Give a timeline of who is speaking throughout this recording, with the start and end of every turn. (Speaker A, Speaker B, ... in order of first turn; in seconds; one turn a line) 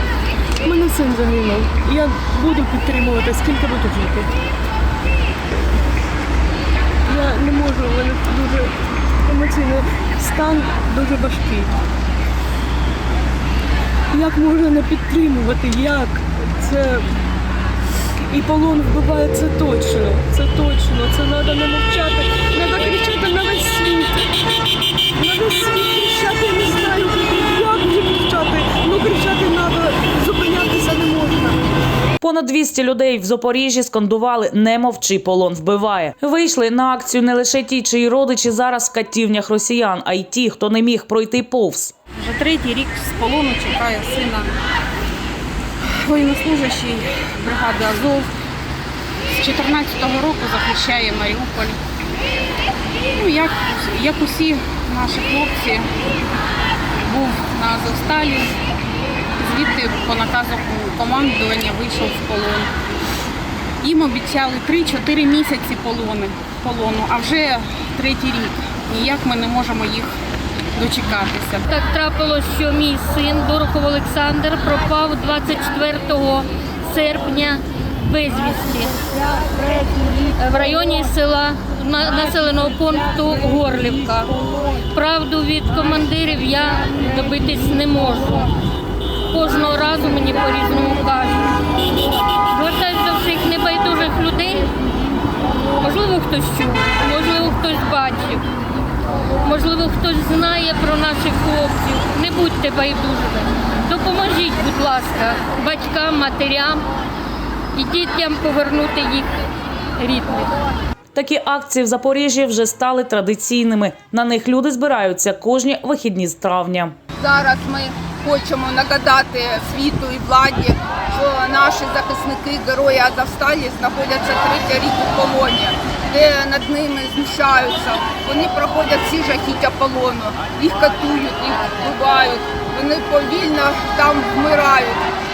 Speaker A: 0.6-4.3
Speaker A: 7.1-11.8
Speaker A: 14.1-17.1
Speaker A: 18.3-24.3
Speaker A: 25.1-31.6
Speaker B: 32.2-41.9
Speaker C: 42.2-44.5
Speaker C: 45.9-48.3
Speaker C: 49.3-51.8
Speaker C: 53.1-55.9
Speaker C: 57.0-58.5
Speaker C: 59.4-62.7
Speaker C: 63.8-70.1
Speaker C: 70.7-71.7
Speaker D: 71.7-79.2
Speaker D: 80.3-84.3
Speaker D: 84.9-88.5
Speaker D: 89.3-91.5
Speaker D: 92.5-94.7
Speaker D: 95.8-98.5
Speaker D: 99.4-106.9
Speaker D: 107.7-109.3
Speaker D: 110.0-110.6
Speaker B: 111.1-117.0
Speaker E: 117.2-135.1